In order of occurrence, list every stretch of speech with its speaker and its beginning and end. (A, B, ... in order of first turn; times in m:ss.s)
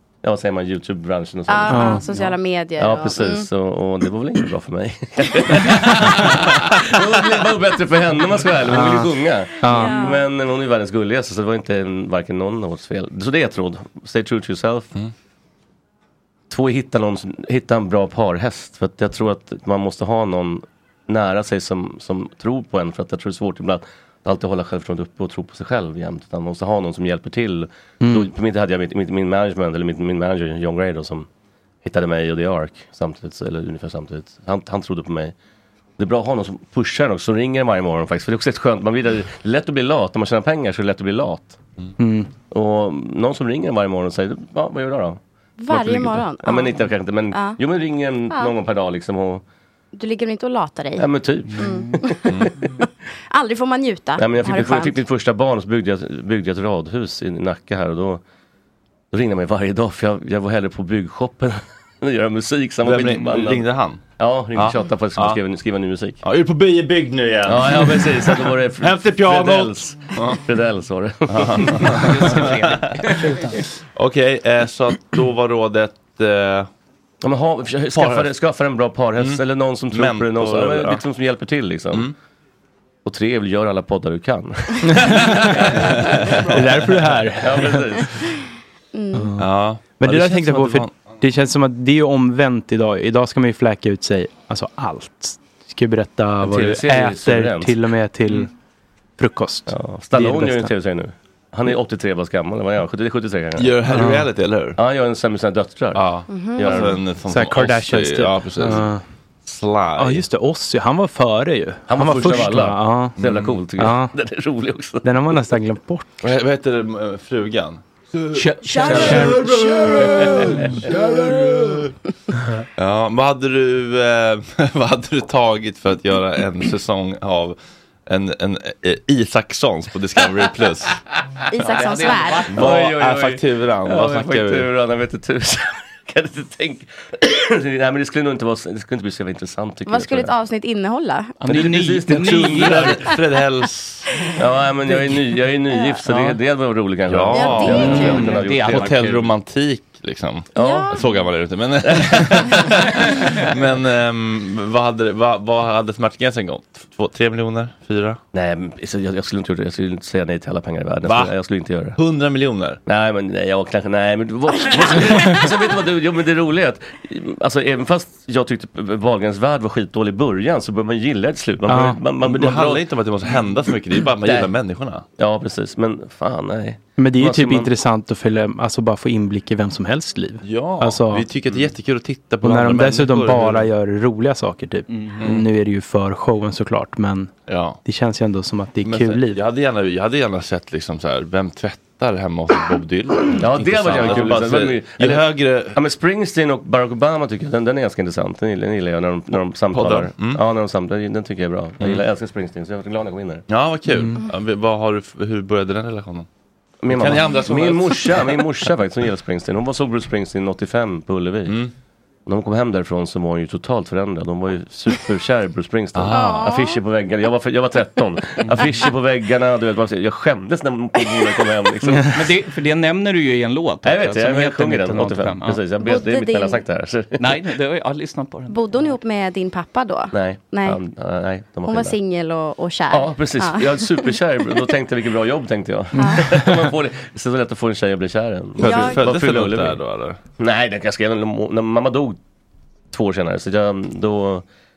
0:00.2-0:02.0 A
0:01.5-0:03.5 B
0:01.7-0:02.0 C
0:02.8-0:14.9 A
0:08.7-0:10.0 C
0:09.6-0:10.2 B
0:16.5-0:31.3 A
0:28.0-0:28.3 C
0:31.8-0:35.3 A
0:36.0-0:41.6 A
0:42.0-0:42.3 C
0:42.4-0:49.4 A
0:45.6-0:47.6 B
0:49.9-0:52.5 B
0:51.0-0:52.2 A
0:53.3-0:55.0 B
0:54.2-0:58.2 A
0:59.1-1:03.7 A
1:02.8-1:04.0 D
1:04.2-1:06.2 A
1:04.5-1:05.4 D
1:06.2-1:10.4 D
1:07.4-1:12.0 A
1:11.3-1:16.7 D
1:11.8-1:13.5 E
1:17.2-1:22.1 A
1:17.9-1:18.4 D
1:19.2-1:21.0 D
1:23.0-1:26.3 A
1:24.9-1:25.6 C
1:25.8-1:26.4 D
1:26.5-1:27.8 C
1:27.4-1:28.2 A
1:28.9-1:29.3 B
1:29.1-1:29.4 C
1:29.4-1:30.9 D
1:30.0-1:38.5 C
1:36.4-1:37.8 A
1:39.2-1:40.7 C
1:39.7-1:43.8 A
1:43.6-1:44.8 D
1:43.9-1:44.3 C
1:44.8-1:47.0 A
1:45.9-1:48.9 D
1:46.3-1:46.9 B
1:47.3-1:49.0 C
1:49.4-1:50.2 D
1:50.0-1:53.2 C
1:51.9-1:55.1 A
1:53.2-1:53.6 D
1:53.8-1:54.1 C
1:55.0-1:56.2 C
1:56.2-2:01.9 D
1:58.3-1:59.5 E
1:58.6-1:59.5 C
1:58.8-1:59.2 A
2:00.0-2:01.2 A
2:00.5-2:00.8 C
2:02.8-2:11.0 D
2:11.5-2:12.5 B
2:11.6-2:12.6 E
2:11.9-2:20.3 A
2:12.5-2:14.7 D
2:19.9-2:21.6 B
2:21.4-2:22.9 E
2:21.4-2:23.0 A
2:22.2-2:24.1 D
2:24.4-2:29.0 A
2:25.7-2:26.0 B
2:26.0-2:26.4 E
2:27.1-2:38.2 D
2:27.3-2:28.4 B
2:27.7-2:29.3 E
2:30.5-2:31.0 A
2:30.6-2:31.0 B
2:31.8-2:32.4 A
2:38.3-2:42.0 A
2:41.0-2:41.4 D
2:41.9-2:42.8 D
2:42.9-2:52.8 A
2:51.7-2:52.0 C
2:52.2-2:55.0 D
2:54.2-2:54.5 A
2:55.2-2:57.7 A
2:57.0-3:01.3 C
3:00.4-3:03.7 D
3:02.4-3:07.3 C
3:04.9-3:05.4 E
3:05.2-3:05.4 D
3:07.5-3:07.8 D
3:07.8-3:09.4 C
3:08.8-3:15.8 D
3:13.4-3:23.4 A
3:19.7-3:20.4 D
3:21.8-3:22.0 D
3:23.5-3:26.3 D
3:26.8-3:31.6 A
3:26.9-3:28.4 D
3:31.5-3:31.7 D
3:32.2-3:42.3 A
3:35.9-3:36.5 D
3:36.1-3:36.8 B
3:42.1-3:45.6 E
3:43.8-3:47.4 A
3:45.8-3:46.6 B
3:47.2-3:49.0 E
3:48.5-3:50.8 B
3:50.1-3:52.0 A
3:51.6-3:54.1 B
3:52.9-3:59.8 A
3:55.9-3:56.3 B
3:58.6-4:00.2 D
3:58.6-3:59.0 B
4:00.4-4:02.2 A
4:02.9-4:04.4 A